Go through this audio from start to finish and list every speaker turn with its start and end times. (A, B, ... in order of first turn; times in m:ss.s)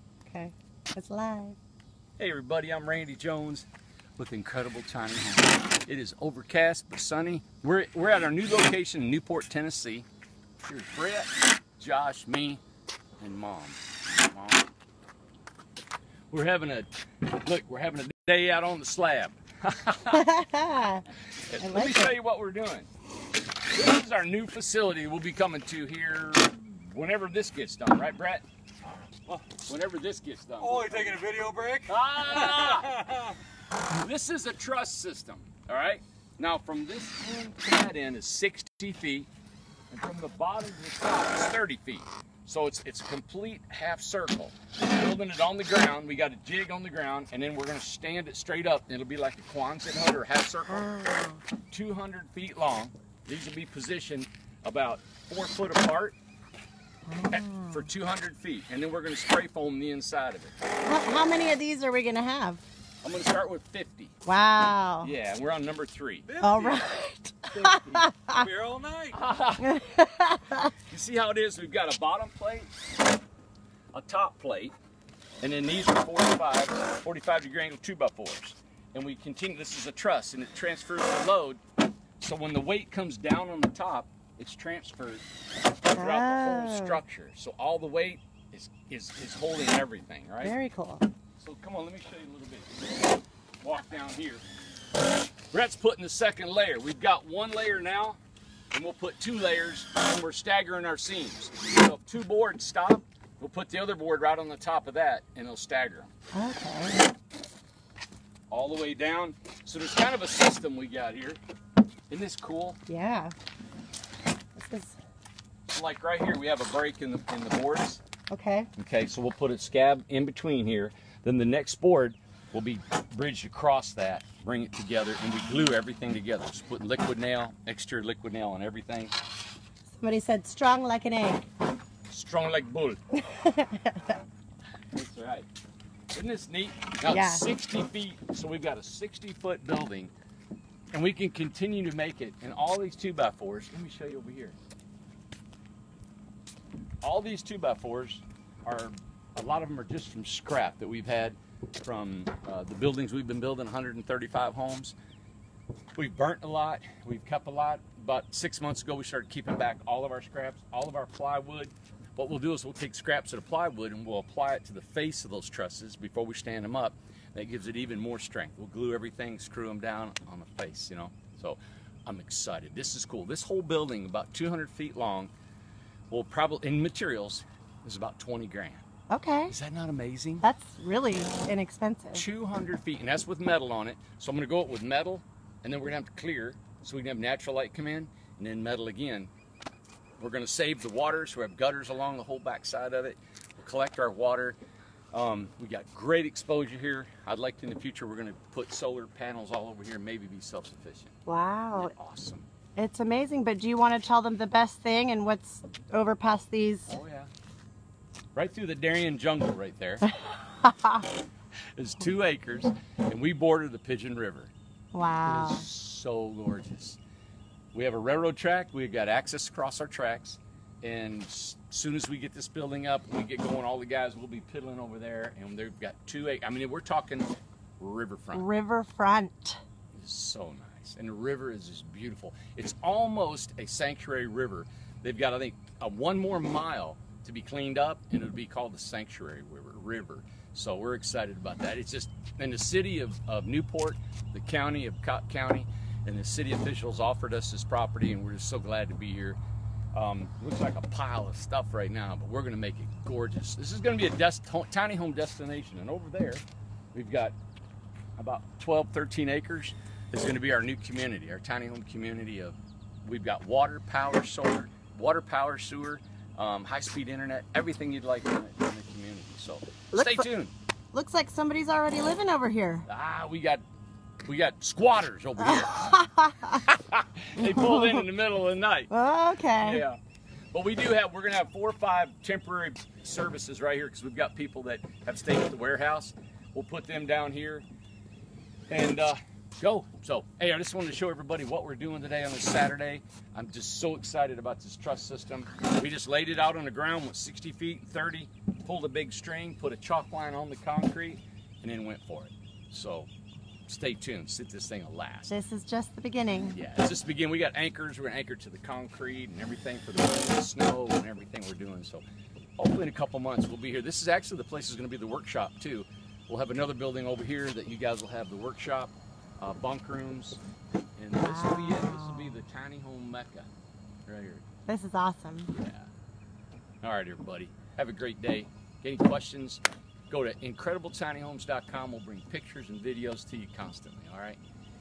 0:00.3-0:01.6 A
0:02.2-0:10.1 B
0:10.6-0:12.6 B
0:13.2-0:14.6 B
0:16.3-0:20.3 B
0:20.1-0:21.0 A
0:21.5-0:22.9 B
0:21.6-0:22.1 A
0:23.7-0:28.4 B
0:29.6-0:33.1 B
0:30.6-0:31.9 C
0:32.8-0:33.1 C
0:33.9-0:39.3 B
0:39.9-0:51.0 B
0:50.7-0:51.4 A
0:51.7-0:56.2 B
0:57.1-0:57.9 A
0:57.3-1:00.6 B
1:00.8-1:02.6 A
1:03.0-1:04.2 B
1:04.3-1:05.1 A
1:05.0-1:06.4 B
1:06.3-1:06.9 C
1:06.4-1:08.4 A
1:07.5-1:08.0 B
1:08.3-1:09.2 C
1:09.1-1:09.8 B
1:09.7-1:10.7 A
1:10.7-1:12.7 B
1:13.9-1:14.8 B
1:15.4-1:21.6 B
1:22.2-1:25.3 B
1:25.8-1:30.5 B
1:25.9-1:27.0 A
1:30.4-1:31.1 A
1:31.4-1:32.7 B
1:33.6-1:34.4 B
1:35.5-1:38.2 B
1:38.7-1:46.1 B
1:46.3-1:47.1 A
1:48.5-1:51.4 B
1:52.1-1:52.8 B
1:52.9-1:53.3 A
1:54.6-1:55.0 A
1:55.7-1:58.0 B
1:58.3-1:58.7 A
1:58.8-2:09.1 B
2:09.9-2:11.5 A
2:12.1-2:13.0 B
2:13.1-2:14.2 A
2:14.9-2:15.5 B
2:16.1-2:20.1 B
2:17.1-2:17.5 A
2:20.9-2:24.6 B
2:27.0-2:34.9 B
2:35.9-2:55.3 B
2:56.1-2:58.8 B
2:59.1-2:59.5 A
2:59.5-3:00.5 B
3:00.4-3:02.2 A
3:02.1-3:09.3 B
3:10.2-3:14.6 B
3:15.1-3:21.2 B
3:21.2-3:21.9 A
3:21.8-3:22.5 B
3:22.8-3:26.9 A
3:26.9-3:27.3 B
3:28.3-3:30.1 B
3:30.4-3:31.1 A
3:31.8-3:34.5 B
3:34.9-3:35.6 A
3:35.2-3:37.0 B
3:37.7-3:48.5 B
3:48.3-3:49.6 A
3:49.9-4:09.4 B
4:09.9-4:17.4 B
4:18.2-4:30.5 B
4:29.9-4:30.2 A
4:30.9-4:32.8 A
4:32.9-4:33.6 B
4:34.2-4:36.0 B
4:35.4-4:36.6 A
4:36.5-4:38.9 B
4:37.4-4:38.1 A
4:38.9-4:39.8 A
4:39.6-4:40.0 B
4:40.5-4:47.7 B
4:48.7-5:03.1 B
5:03.7-5:05.3 B
5:05.3-5:06.6 A
5:06.4-5:12.0 B
5:12.6-5:20.4 B
5:21.0-5:23.5 B
5:21.2-5:22.4 A
5:24.1-5:24.4 B
5:24.7-5:25.5 A
5:25.5-5:25.9 B
5:26.8-5:34.4 B